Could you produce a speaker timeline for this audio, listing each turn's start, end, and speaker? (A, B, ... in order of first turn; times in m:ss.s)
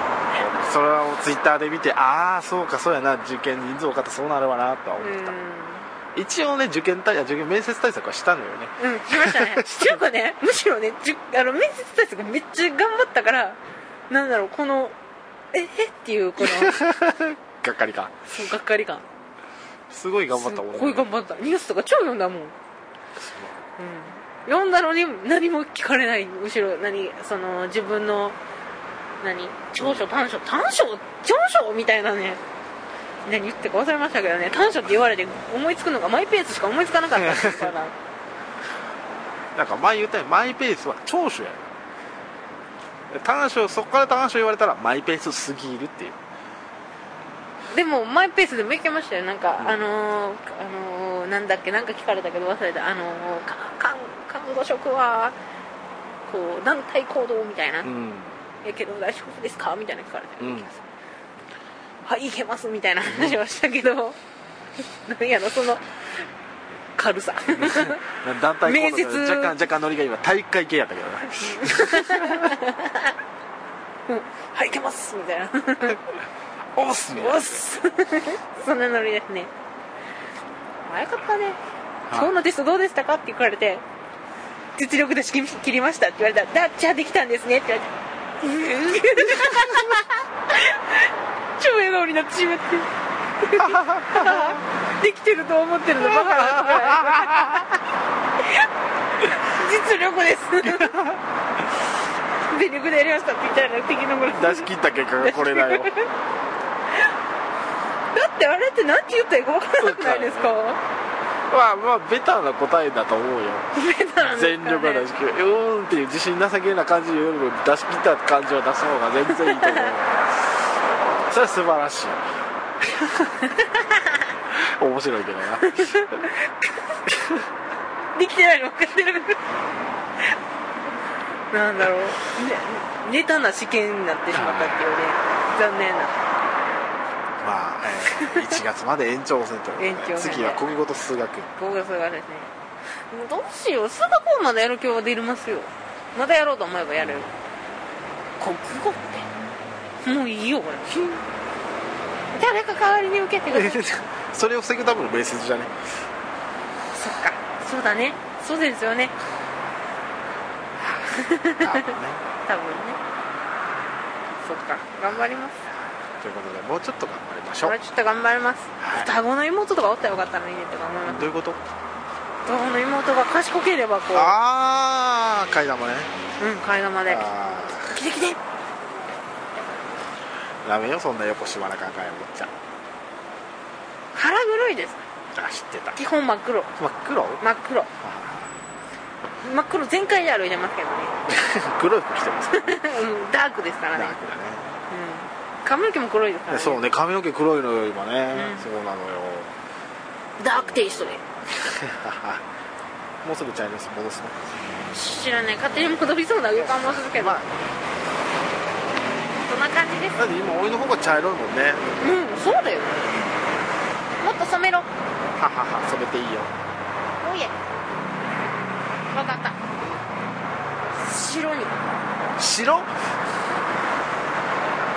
0:00.3-0:05.4 A
0:05.0-0:05.9 B
0:06.1-0:10.0 A
0:08.8-0:13.6 B
0:14.1-0:15.0 B
0:15.5-0:16.9 B
0:16.4-0:18.1 A
0:18.3-0:19.0 B
0:19.9-0:21.1 A
0:20.3-0:22.5 B
0:23.2-0:23.6 A
0:23.8-0:28.4 B
0:29.2-0:32.4 B
0:29.8-0:30.1 A
0:33.3-0:38.0 B
0:37.2-0:37.7 A
0:39.6-0:41.6 A
0:43.1-0:46.2 A
0:47.7-0:55.4 B
0:56.3-0:57.9 B
0:57.8-0:58.4 A
0:58.6-1:00.8 B
1:00.4-1:00.7 A
1:02.0-1:04.2 B
1:03.1-1:03.4 A
1:05.1-1:05.8 B
1:07.0-1:08.0 B
1:07.5-1:12.6 A
1:08.6-1:09.5 B
1:11.4-1:13.2 B
1:14.1-1:16.0 B
1:16.8-1:17.6 A
1:17.1-1:19.5 B
1:20.9-1:21.6 B
1:22.1-1:22.3 A
1:22.1-1:23.8 B
1:24.8-1:32.9 B
1:29.1-1:30.1 A
1:33.4-1:37.8 B
1:33.5-1:34.6 A
1:36.0-1:37.7 A
1:38.4-1:38.7 B
1:39.2-1:41.0 B
1:40.6-1:41.2 A
1:42.4-1:44.7 B
1:44.3-1:45.9 A
1:45.2-1:46.1 B
1:48.1-1:50.8 B
1:49.8-1:50.5 A
1:51.5-2:00.2 A
1:53.8-1:55.1 B
1:59.3-2:00.0 B
2:01.3-2:02.2 A
2:02.8-2:03.4 A
2:03.4-2:04.3 B
2:04.5-2:06.3 A
2:05.6-2:07.0 B
2:07.1-2:07.5 A
2:08.2-2:09.4 B
2:11.5-2:16.2 B
2:14.3-2:14.8 A
2:17.4-2:21.5 A
2:18.1-2:18.5 B
2:19.8-2:20.6 B
2:21.6-2:22.5 B
2:23.1-2:27.3 B
2:27.0-2:27.3 A
2:28.4-2:29.3 B
2:30.0-2:30.9 B
2:32.3-2:33.9 B
2:33.5-2:35.7 A
2:36.9-2:39.2 B
2:40.9-2:42.2 A
2:41.1-2:41.9 B
2:42.5-2:43.0 B
2:44.4-2:45.6 B
2:46.2-2:47.8 A
2:47.6-2:51.3 B
2:48.8-2:49.2 A
2:51.1-2:51.6 A
2:52.5-2:54.4 B
2:54.1-2:56.1 A
2:56.4-2:58.4 B
2:57.1-2:58.0 A
3:00.6-3:02.5 A
3:04.1-3:05.0 B
3:05.3-3:06.0 A
3:06.0-3:06.7 B
3:06.8-3:07.4 A
3:07.4-3:07.9 B
3:08.0-3:08.5 A
3:09.4-3:11.2 B
3:11.3-3:12.8 A
3:12.5-3:14.2 B
3:14.0-3:14.7 A
3:14.9-3:16.8 B
3:16.5-3:19.5 A
3:18.3-3:18.7 B
3:20.4-3:21.2 B
3:20.6-3:22.4 A
3:23.2-3:24.4 A
3:24.9-3:27.4 B
3:25.7-3:27.6 A
3:29.5-3:30.2 B
3:30.2-3:31.8 A
3:32.0-3:33.0 B
3:34.2-3:34.9 B
3:35.4-3:36.5 A
3:37.2-3:37.6 B
3:39.1-3:39.6 B
3:41.0-3:41.9 B
3:42.4-3:42.9 A